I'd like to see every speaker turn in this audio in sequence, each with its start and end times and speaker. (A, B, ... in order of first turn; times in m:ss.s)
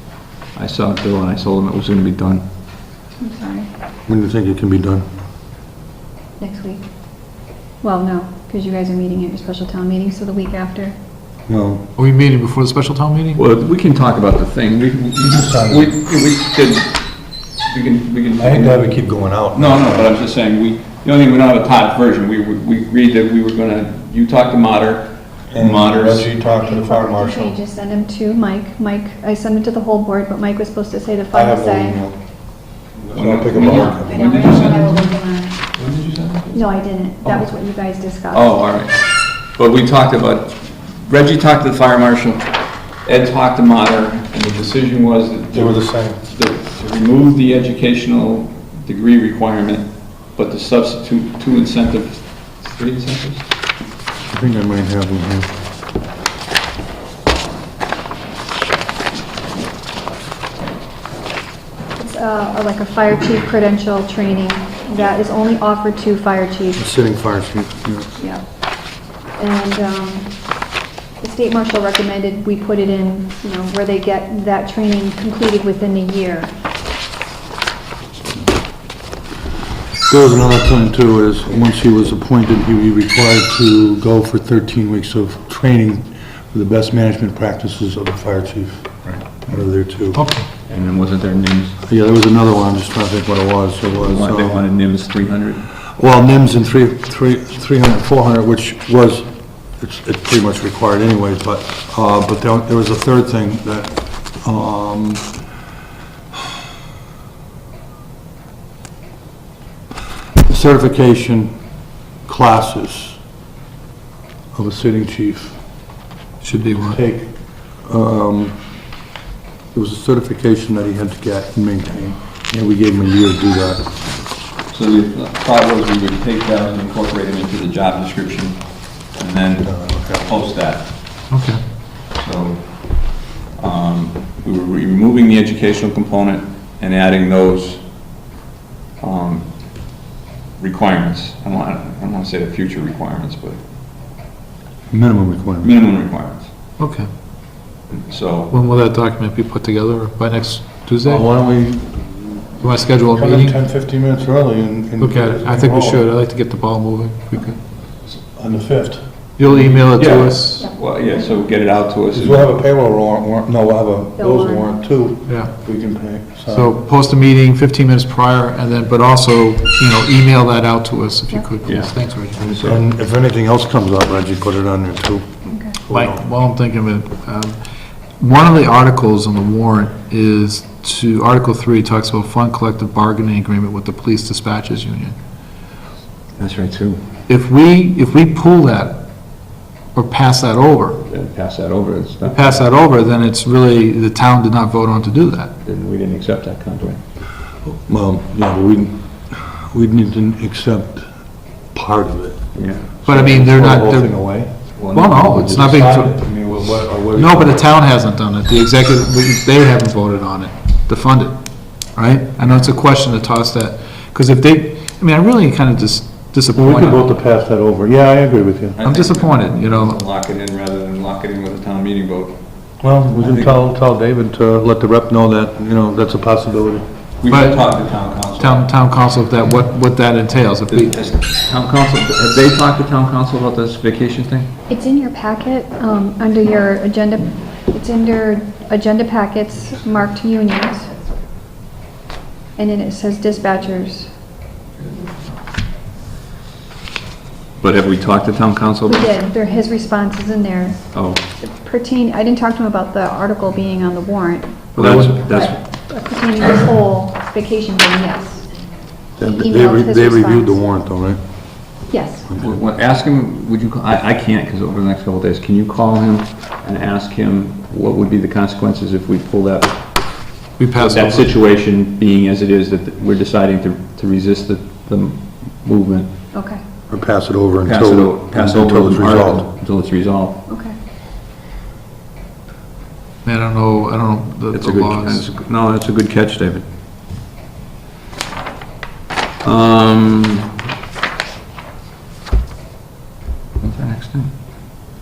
0:00.5-0:02.4 A
0:03.2-0:03.7 B
0:04.1-0:05.0 C
0:06.4-0:06.8 B
0:07.8-0:10.9 B
0:11.5-0:11.8 C
0:12.0-0:13.4 D
0:13.4-0:17.0 A
0:15.2-0:15.9 C
0:17.6-0:18.8 A
0:18.4-0:20.1 C
0:19.5-0:26.3 A
0:25.5-0:27.5 C
0:26.4-0:32.0 B
0:31.3-0:32.2 C
0:33.0-0:34.4 C
0:33.1-0:35.1 A
0:33.8-0:35.6 B
0:35.7-0:36.6 A
0:36.5-0:38.5 B
0:38.3-0:39.0 A
0:39.5-0:42.5 A
0:43.0-0:53.4 A
0:45.5-0:46.2 C
0:54.3-0:55.5 C
1:02.0-1:06.8 B
1:06.8-1:08.1 C
1:09.4-1:10.3 B
1:11.2-1:16.5 B
1:20.1-1:30.2 C
1:30.1-1:30.4 D
1:30.7-1:31.8 A
1:31.8-1:34.6 C
1:34.0-1:35.7 A
1:36.0-1:45.4 C
1:50.4-1:51.5 C
1:52.2-1:53.2 C
1:54.5-1:55.6 C
1:56.4-1:57.0 D
1:56.8-1:58.6 C
1:59.7-2:03.9 C
2:04.7-2:10.9 A
2:09.6-2:10.2 C
2:11.3-2:11.6 D
2:12.1-2:17.8 A
2:19.0-2:19.5 A
2:20.6-2:23.6 A
2:24.9-2:25.7 C
2:25.6-2:26.5 A
2:26.8-2:27.1 D
2:27.9-2:28.5 A
2:28.5-2:31.2 D
2:31.0-2:32.4 C
2:32.6-2:33.6 D
2:33.1-2:36.0 C
2:35.0-2:37.6 D
2:38.0-2:39.6 C
2:39.4-2:40.7 D
2:39.5-2:42.6 A
2:40.6-2:41.3 B
2:42.1-2:46.8 C
2:44.2-2:44.8 B
2:45.2-2:45.5 D
2:46.5-2:52.6 D
2:51.6-2:52.7 A
2:52.6-2:56.2 C
2:55.5-2:55.8 B
2:55.9-2:57.6 D
2:58.2-3:05.1 D
3:06.4-3:07.0 A
3:07.3-3:09.0 D
3:09.9-3:11.0 D
3:11.0-3:12.6 A
3:12.2-3:15.5 D
3:15.6-3:17.0 A
3:17.6-3:24.7 C
3:22.5-3:22.9 A
3:23.0-3:26.5 D
3:24.7-3:26.0 A
3:25.4-3:27.6 C
3:27.1-3:31.4 D
3:31.9-3:37.0 D
3:36.5-3:38.8 C
3:38.8-3:42.4 A
3:38.8-3:40.0 D
3:42.8-3:46.8 C
3:43.1-3:43.6 A
3:47.2-3:48.6 A
3:47.3-3:47.8 D
3:48.4-3:51.0 D
3:50.7-3:54.5 A
3:54.7-4:00.9 B
4:02.6-4:04.1 B
4:07.6-4:09.1 A
4:08.9-4:10.8 B
4:10.9-4:11.2 A
4:11.4-4:14.7 B
4:14.7-4:15.5 D
4:14.8-4:15.6 A
4:15.3-4:18.5 B
4:19.2-4:21.2 C
4:19.3-4:20.6 B
4:21.9-4:22.2 B
4:22.3-4:22.6 C
4:22.4-4:29.8 A
4:30.6-4:31.3 D
4:30.8-4:36.1 A
4:36.3-4:36.6 B
4:36.9-4:39.5 C
4:37.6-4:40.4 A
4:40.5-4:40.7 B
4:43.2-4:45.3 D
4:44.5-4:46.6 A
4:49.4-4:50.5 A
4:53.6-4:54.3 A